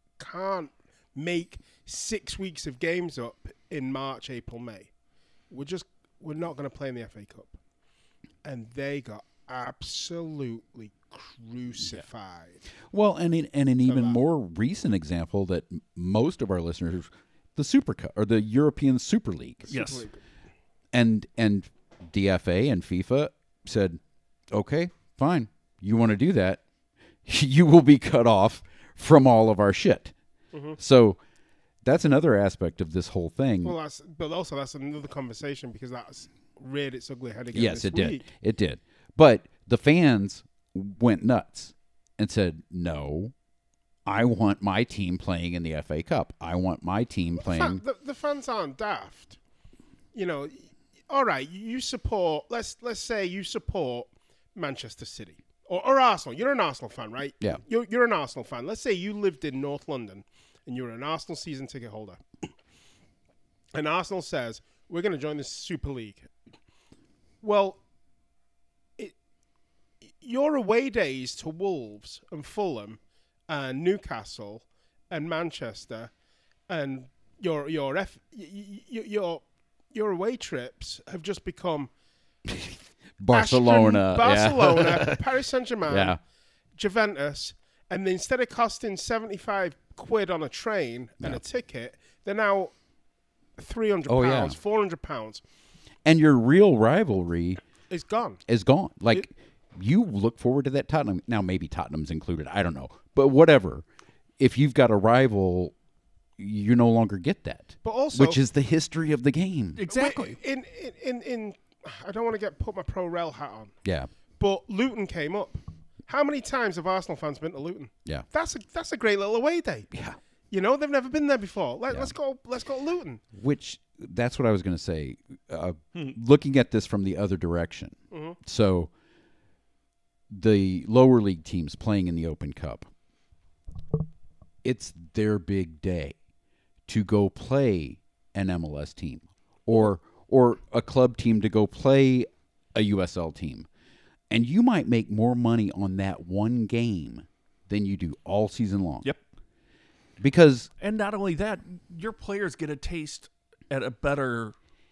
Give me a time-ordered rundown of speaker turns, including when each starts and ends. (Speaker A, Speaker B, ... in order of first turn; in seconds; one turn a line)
Speaker A: 0.2-4.9
Speaker A: 5.5-7.6
Speaker A: 8.4-12.6
Speaker B: 12.9-19.7
Speaker A: 13.9-14.2
Speaker A: 19.7-20.2
Speaker C: 19.7-20.1
Speaker B: 20.9-24.0
Speaker B: 24.5-26.6
Speaker B: 27.2-30.1
Speaker A: 30.5-30.8
Speaker B: 30.8-31.2
Speaker B: 31.8-33.8
Speaker A: 33.6-38.3
Speaker B: 37.5-43.3
Speaker B: 44.1-47.8
Speaker A: 47.4-49.4
Speaker A: 50.1-62.5
Speaker A: 63.7-66.3
Speaker A: 67.4-67.8
Speaker A: 70.2-76.1
Speaker A: 76.7-81.9
Speaker B: 82.5-85.2
Speaker A: 83.3-86.2
Speaker B: 85.9-86.2
Speaker A: 86.8-92.7
Speaker A: 93.6-95.4
Speaker B: 94.1-94.6
Speaker B: 96.0-97.6
Speaker A: 97.9-98.4
Speaker B: 98.5-103.8
Speaker B: 104.4-105.7
Speaker B: 106.4-109.8
Speaker A: 107.8-108.4
Speaker C: 109.8-110.4
Speaker A: 109.9-113.7
Speaker B: 113.8-114.1
Speaker A: 114.4-119.9
Speaker A: 120.5-123.2
Speaker B: 123.3-128.9
Speaker A: 128.1-128.4
Speaker B: 130.3-132.9
Speaker B: 134.6-136.2
Speaker B: 136.9-143.7
Speaker B: 144.3-149.1
Speaker B: 150.2-150.7
Speaker C: 150.8-154.6